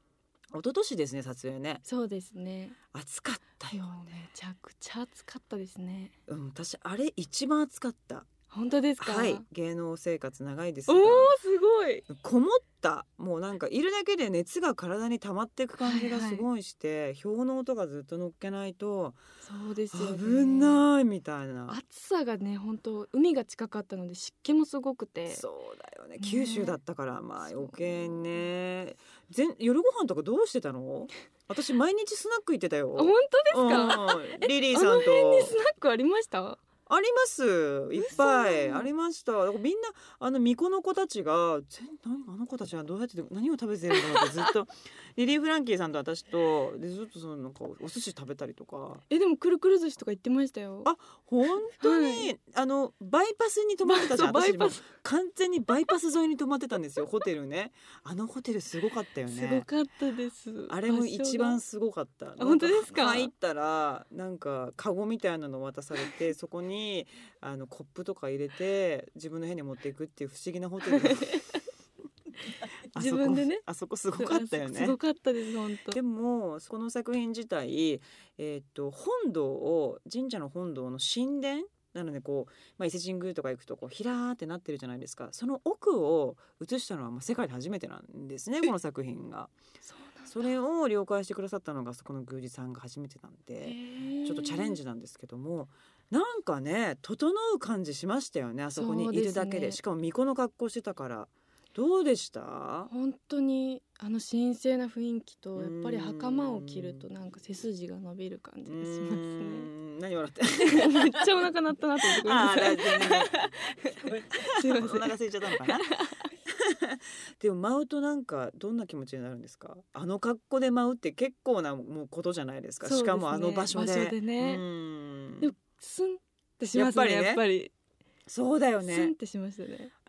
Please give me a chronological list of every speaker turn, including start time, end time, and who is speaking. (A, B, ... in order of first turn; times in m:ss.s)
0:00.5-0:01.8 A
0:01.8-0:02.8 B
0:02.9-0:04.2 A
0:03.7-0:06.1 B
0:06.3-0:08.3 A
0:08.5-0:09.4 B
0:09.0-0:11.3 A
0:10.9-0:12.0 B
0:12.1-0:19.2 A
0:15.8-0:16.4 B
0:19.4-0:20.8 B
0:19.9-0:21.8 A
0:21.7-0:25.4 B
0:25.3-0:35.5 A
0:26.2-0:26.8 B
0:27.4-0:28.5 B
0:33.0-0:36.6 B
0:36.9-0:49.0 A
0:38.0-0:38.9 B
0:44.0-0:44.2 B
0:49.1-0:50.9 B
0:50.8-0:59.6 A
0:51.8-0:52.3 B
0:53.8-0:54.8 B
0:59.3-1:01.6 B
1:00.7-1:11.4 A
1:02.4-1:03.3 B
1:10.9-1:11.6 B
1:12.9-1:15.0 A
1:12.9-1:16.0 B
1:15.9-1:29.5 A
1:29.8-1:30.5 B
1:30.2-1:42.9 A
1:33.6-1:34.8 B
1:38.8-1:39.8 B
1:42.9-1:49.7 B
1:45.6-1:47.0 A
1:48.7-1:51.3 A
1:50.6-1:56.3 B
1:52.1-1:53.4 A
1:54.3-2:05.5 A
2:02.8-2:04.6 B
2:05.4-2:07.7 B
2:06.7-2:07.4 A
2:08.3-2:09.1 A
2:08.8-2:09.9 B